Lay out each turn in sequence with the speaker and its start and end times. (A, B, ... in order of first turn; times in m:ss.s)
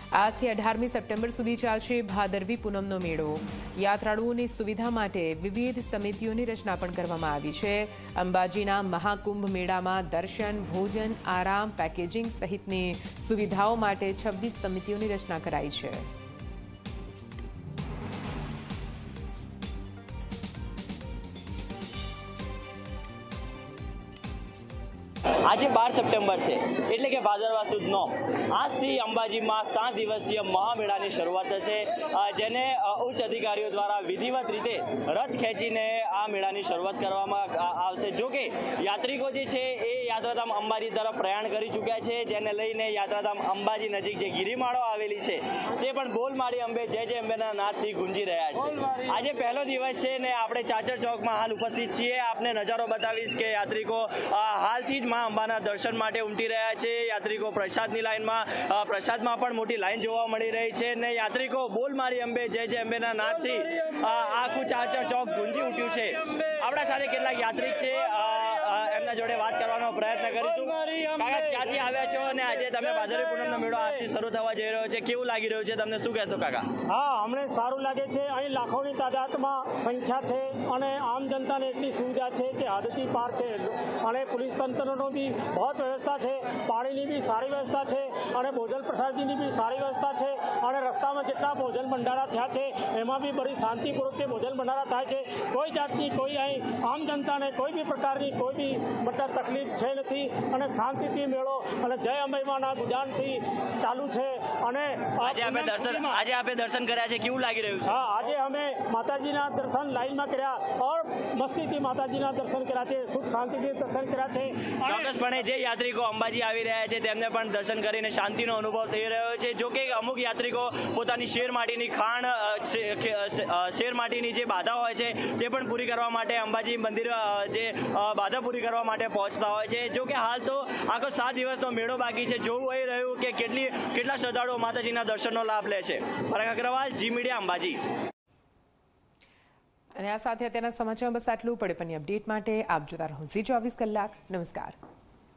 0:00.1-0:16.1 A
0:25.5-1:16.6 B
1:16.9-1:46.3 C
1:45.2-1:48.0 B
1:47.8-1:55.2 C
1:54.8-2:17.8 B
2:20.0-2:24.7 A